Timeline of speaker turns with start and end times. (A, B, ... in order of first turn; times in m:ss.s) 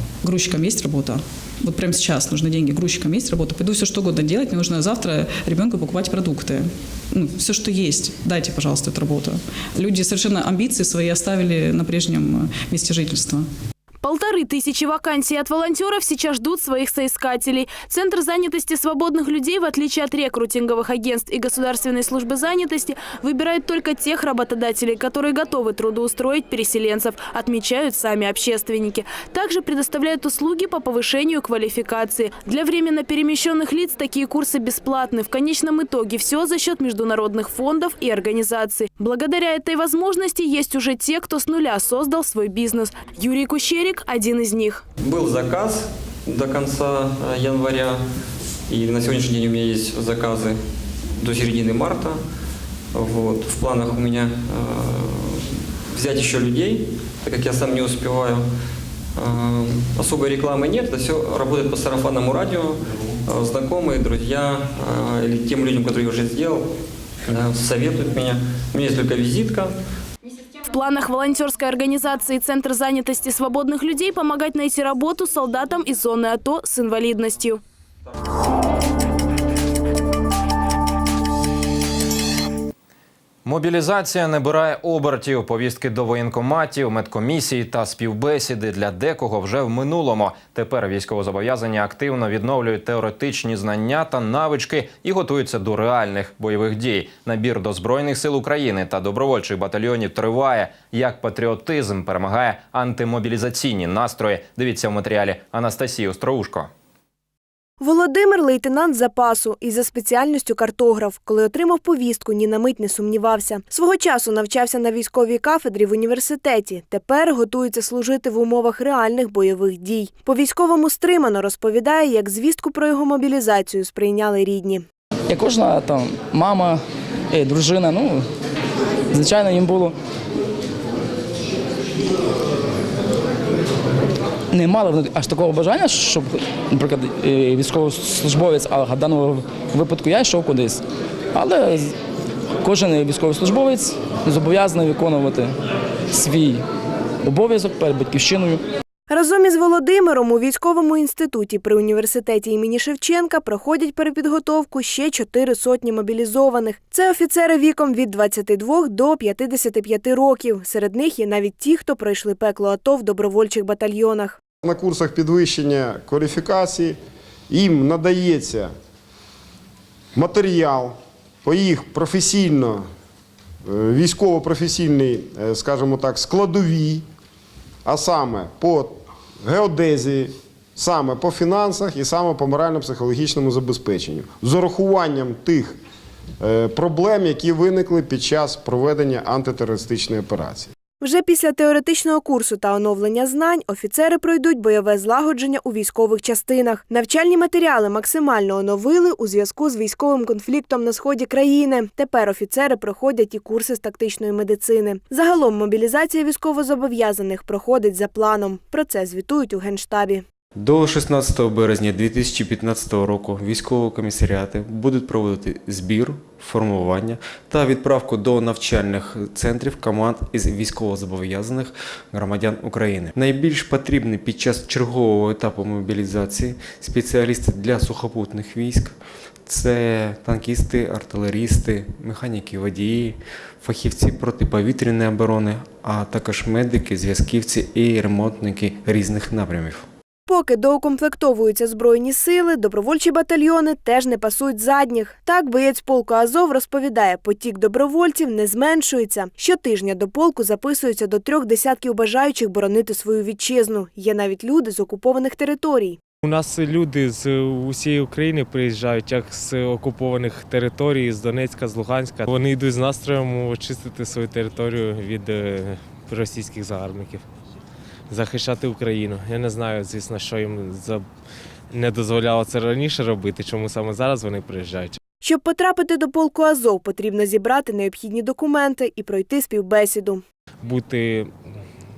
0:00.3-0:06.6 A
0:07.2-0:13.4 A
0:14.0-0:44.8 B
0:45.0-0:48.0 C
0:48.7-0:50.6 C
0:51.2-0:52.2 C
0:53.0-0:55.4 C
0:55.9-0:58.4 C
0:59.2-1:06.6 C
1:07.3-1:09.7 C
1:10.7-1:17.6 B
1:23.4-1:46.7 D
1:47.8-2:04.8 E
2:05.3-2:08.2 F
2:09.1-2:09.9 F
2:14.5-2:20.8 F
2:21.3-2:21.9 F
2:22.6-2:25.5 F
2:26.1-2:26.6 F
2:27.2-2:28.6 F
2:29.1-2:44.4 E
2:44.8-2:46.9 G
2:47.5-2:48.7 G
2:50.2-2:50.9 G
2:51.5-2:52.8 G
2:53.7-2:57.0 G
2:57.9-2:58.9 G
2:59.4-3:00.3 G
3:00.8-3:05.6 G
3:06.4-3:10.7 G
3:11.0-3:30.2 E
3:30.6-3:59.8 H
4:00.3-4:16.0 E
4:16.2-4:27.2 I
4:28.1-4:31.0 I
4:31.7-4:35.0 I
4:35.2-4:40.2 E
4:40.6-4:41.4 I